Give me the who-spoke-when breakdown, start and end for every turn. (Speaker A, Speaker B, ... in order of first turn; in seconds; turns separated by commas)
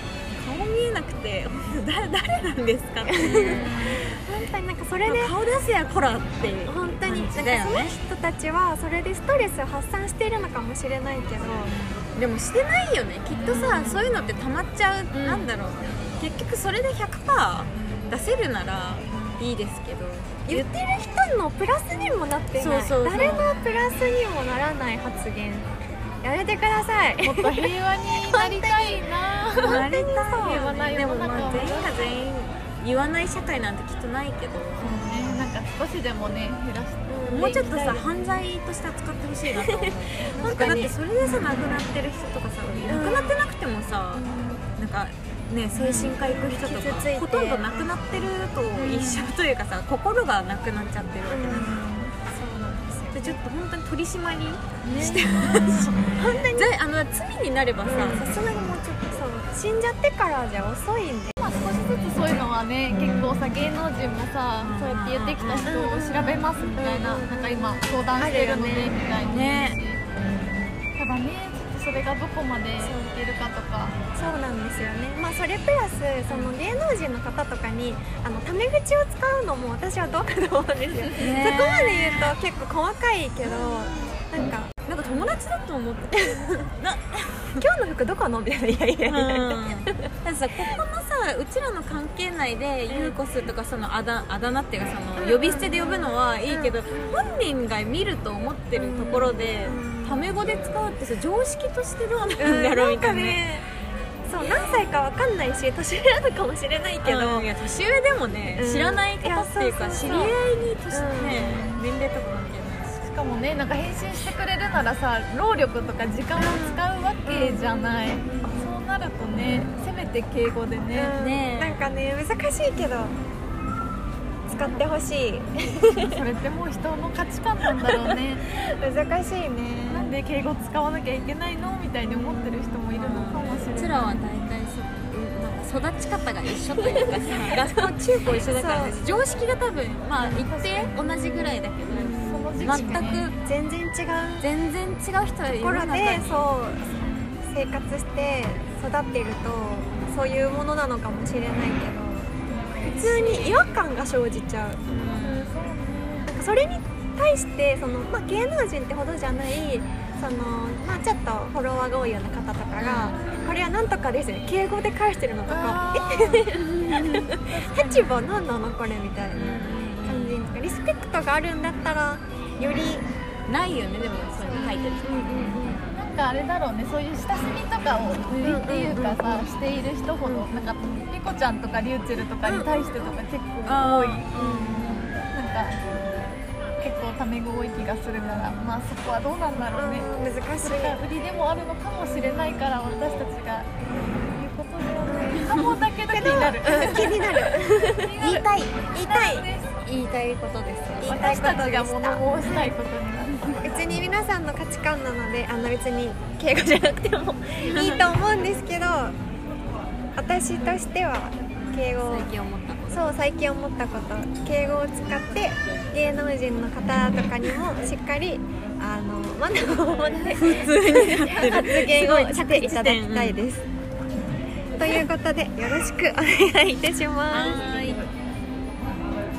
Speaker A: 0.3-4.2, Speaker B: 3.0-5.3, Speaker A: 5.0-7.9, Speaker B: 6.7-11.7, Speaker A: 11.6-20.6, Speaker B: 13.4-14.1, Speaker C: 15.1-15.5, Speaker C: 17.8-18.1, Speaker B: 20.4-25.7, Speaker A: 22.6-23.5, Speaker C: 23.1-24.2, Speaker B: 26.2-30.7, Speaker C: 27.2-29.8, Speaker A: 29.6-35.4, Speaker C: 30.4-32.0, Speaker C: 34.8-38.1, Speaker B: 34.9-35.2, Speaker B: 37.1-38.0, Speaker A: 37.3-44.2, Speaker B: 39.7-40.9, Speaker C: 40.4-40.9, Speaker B: 42.9-43.3, Speaker B: 44.1-44.6, Speaker A: 44.8-51.7, Speaker B: 45.8-48.3, Speaker C: 48.7-49.3, Speaker B: 51.3-53.4, Speaker A: 53.1-58.4, Speaker C: 54.8-56.0, Speaker B: 56.0-56.8, Speaker B: 57.8-61.3, Speaker C: 61.4-70.0, Speaker A: 64.6-65.7, Speaker B: 65.6-69.0, Speaker A: 69.3-69.8, Speaker C: 71.0-74.0, Speaker B: 72.8-73.1, Speaker B: 74.1-84.7, Speaker A: 81.1-82.3, Speaker A: 83.4-84.2, Speaker A: 84.8-87.6, Speaker B: 86.2-86.4, Speaker B: 87.6-90.0, Speaker A: 89.1-103.4, Speaker B: 92.9-93.2, Speaker B: 95.2-97.2, Speaker B: 98.8-100.3, Speaker B: 102.4-103.7, Speaker B: 104.3-107.5, Speaker A: 104.3-104.8, Speaker A: 107.0-113.0, Speaker B: 108.5-110.3, Speaker B: 110.9-111.6, Speaker C: 113.0-121.1, Speaker B: 116.3-118.5, Speaker B: 120.9-123.1, Speaker A: 121.1-121.8, Speaker B: 124.5-126.1, Speaker C: 125.9-128.4, Speaker B: 127.7-130.2, Speaker C: 129.9-134.2, Speaker B: 132.1-132.8, Speaker A: 132.9-143.4, Speaker B: 136.8-139.0, Speaker C: 140.1-140.9, Speaker B: 141.1-144.5, Speaker C: 142.2-143.3, Speaker A: 144.4-146.5, Speaker B: 145.6-146.9, Speaker B: 147.4-154.8, Speaker C: 152.5-152.9, Speaker A: 152.9-153.7, Speaker A: 154.8-155.6, Speaker C: 155.1-156.3, Speaker B: 156.3-173.1, Speaker A: 162.8-163.2, Speaker C: 165.5-166.5, Speaker A: 166.8-167.2, Speaker C: 167.3-168.1, Speaker A: 169.3-170.4, Speaker A: 173.5-175.3, Speaker B: 174.4-175.8, Speaker C: 175.9-185.8, Speaker B: 178.3-179.4, Speaker B: 180.2-180.5, Speaker B: 182.4-183.2, Speaker A: 183.7-184.3, Speaker B: 184.3-185.0, Speaker C: 186.8-190.1, Speaker B: 189.6-191.0, Speaker C: 190.6-199.7, Speaker B: 195.0-195.5, Speaker B: 196.1-199.5, Speaker A: 198.2-198.7, Speaker A: 199.8-201.2, Speaker B: 201.0-202.7, Speaker C: 201.0-203.8, Speaker B: 203.6-209.2, Speaker A: 207.7-208.1, Speaker B: 210.2-212.3, Speaker A: 212.0-213.1, Speaker B: 212.9-223.7, Speaker A: 220.3-223.4, Speaker B: 224.8-227.6, Speaker A: 227.3-228.1